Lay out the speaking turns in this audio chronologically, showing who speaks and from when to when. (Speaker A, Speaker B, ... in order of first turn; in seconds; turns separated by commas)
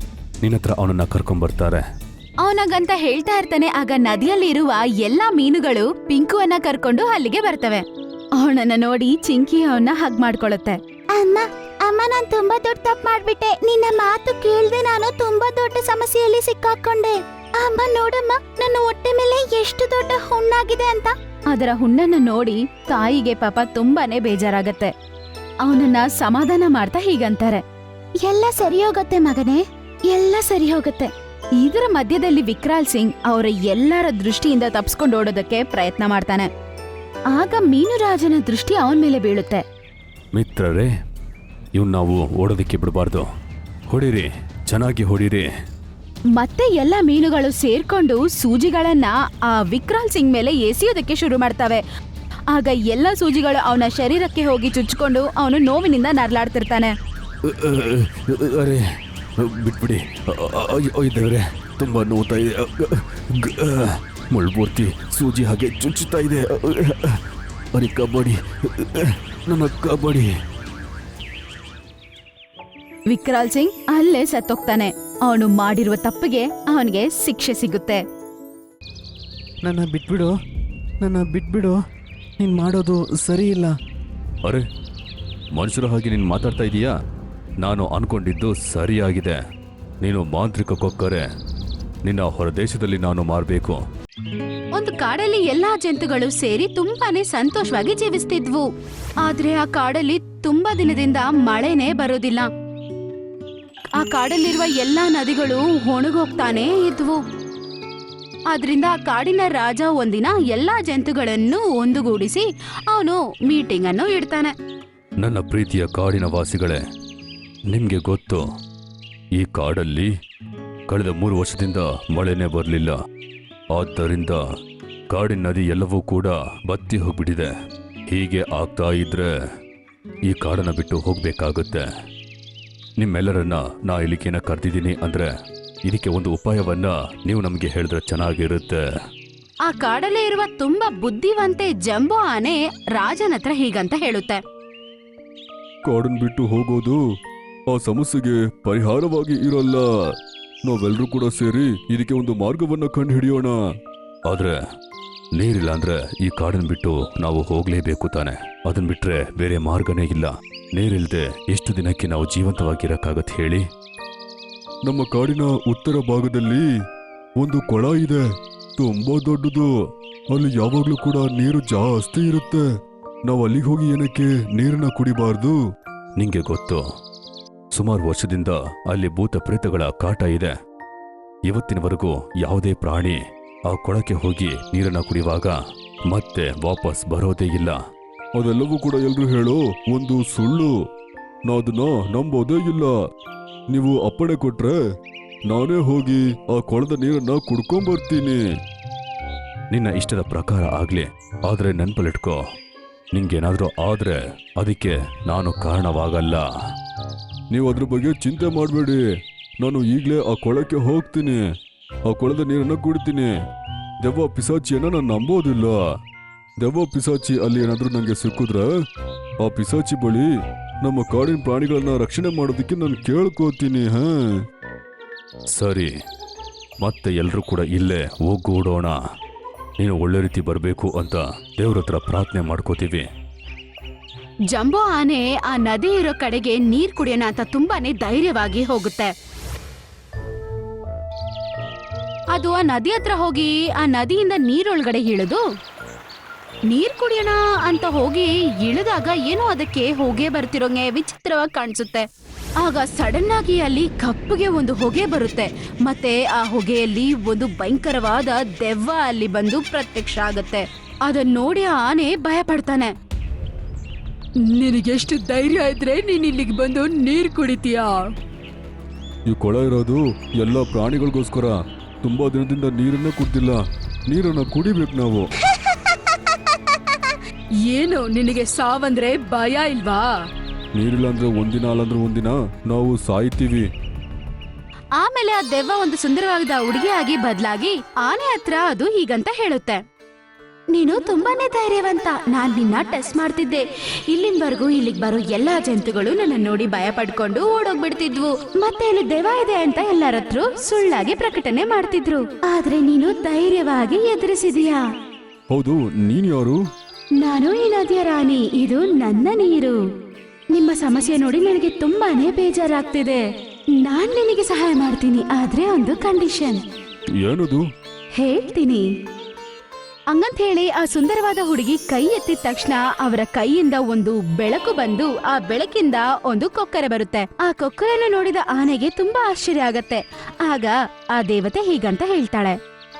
Speaker A: 0.4-1.8, Speaker B: 2.4-7.8, Speaker B: 8.3-10.8, Speaker C: 11.1-21.1, Speaker B: 21.5-24.9, Speaker B: 25.6-27.6, Speaker B: 28.2-36.5, Speaker B: 37.3-39.6, Speaker A: 40.3-40.9, Speaker A: 41.7-43.3, Speaker A: 43.9-45.5, Speaker B: 46.3-51.8, Speaker B: 52.5-56.9, Speaker A: 57.4-58.8, Speaker A: 59.4-67.2, Speaker A: 67.7-70.3, Speaker B: 73.1-78.0, Speaker D: 79.6-80.3, Speaker D: 81.0-81.7, Speaker D: 82.4-83.7, Speaker A: 85.5-86.9, Speaker A: 87.6-89.4, Speaker A: 90.0-91.2, Speaker A: 92.0-93.8, Speaker B: 94.7-98.7, Speaker B: 99.2-102.5, Speaker B: 103.9-107.2, Speaker B: 108.5-114.5, Speaker A: 115.2-116.8, Speaker A: 117.7-118.5, Speaker A: 119.3-120.1, Speaker A: 120.9-123.0, Speaker A: 123.7-124.4, Speaker A: 125.1-127.5, Speaker A: 128.1-129.3, Speaker A: 130.2-131.8, Speaker A: 133.0-135.3, Speaker A: 135.8-138.8, Speaker B: 139.6-144.4, Speaker A: 145.8-147.0, Speaker A: 147.7-149.8, Speaker A: 150.6-153.5, Speaker A: 154.3-154.6, Speaker A: 155.3-163.6, Speaker A: 164.8-166.6, Speaker A: 167.4-168.2, Speaker A: 168.8-169.7, Speaker A: 170.3-172.6, Speaker A: 173.2-175.6, Speaker A: 176.2-176.8, Speaker A: 177.7-180.5, Speaker A: 181.4-185.6, Speaker A: 186.1-187.8, Speaker A: 188.4-190.7, Speaker A: 191.5-192.9, Speaker A: 193.7-194.8, Speaker A: 195.5-198.4, Speaker A: 199.7-202.4, Speaker A: 203.1-206.4, Speaker A: 207.5-209.0, Speaker A: 209.6-211.4, Speaker A: 212.1-213.3, Speaker A: 214.0-215.8, Speaker A: 216.6-218.7, Speaker A: 219.4-220.3, Speaker A: 220.8-224.1, Speaker A: 225.5-225.9, Speaker A: 226.8-229.0, Speaker A: 229.8-233.1, Speaker B: 234.5-239.1, Speaker B: 242.3-245.4, Speaker B: 246.7-252.1, Speaker B: 252.6-262.9, Speaker B: 264.4-268.1, Speaker A: 269.3-275.3, Speaker B: 277.6-280.1, Speaker A: 280.7-283.6, Speaker B: 285.0-289.8, Speaker B: 290.7-304.8, Speaker A: 305.5-306.6, Speaker B: 307.2-309.8, Speaker B: 310.5-313.2, Speaker B: 313.8-316.6, Speaker A: 317.2-317.6, Speaker B: 318.2-318.9, Speaker B: 320.1-332.6